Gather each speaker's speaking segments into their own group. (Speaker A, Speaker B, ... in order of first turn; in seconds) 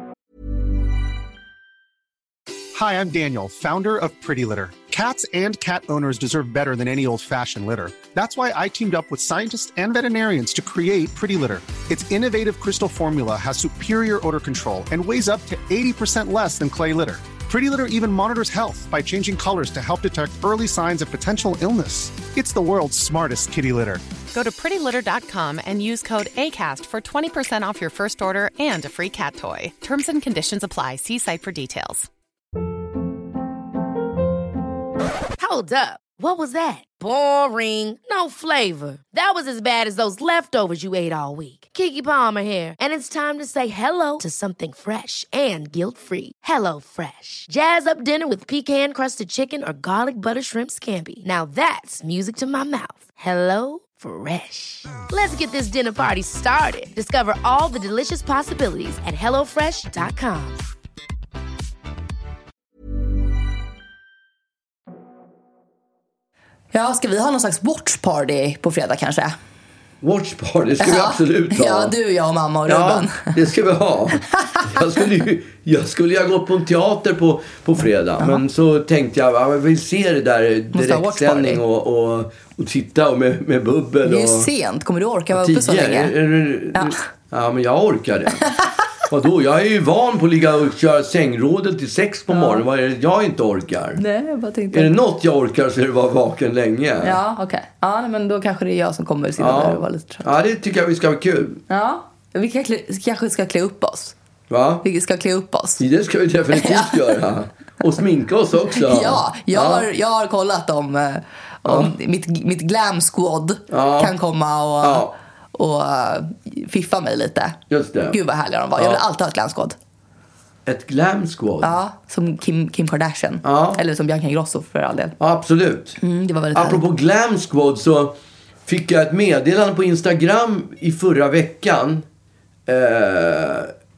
Speaker A: 2.7-24.0
Speaker B: 24.3-32.1
Speaker C: 35.4-60.6
Speaker D: 66.7-69.3, 70.8-73.3, 80.7-81.6, 84.0-86.1, 86.7-87.0, 92.3-92.6, 94.0-94.9, 97.0-100.3, 101.7-104.1, 104.8-105.8, 106.5-107.0, 108.8-117.6, 118.1-119.8, 121.6-125.2, 126.0-126.8
Speaker E: 70.0-71.9, 72.7-84.5, 85.3-88.5, 89.1-94.0, 94.7-97.2, 99.4-101.6, 104.5-104.8, 105.8-109.9, 111.6-111.9, 113.7-114.1, 114.8-115.1, 117.7-118.2, 120.7-121.7, 123.4-123.8, 125.2-126.0, 126.5-128.1, 128.7-132.1, 132.7-133.7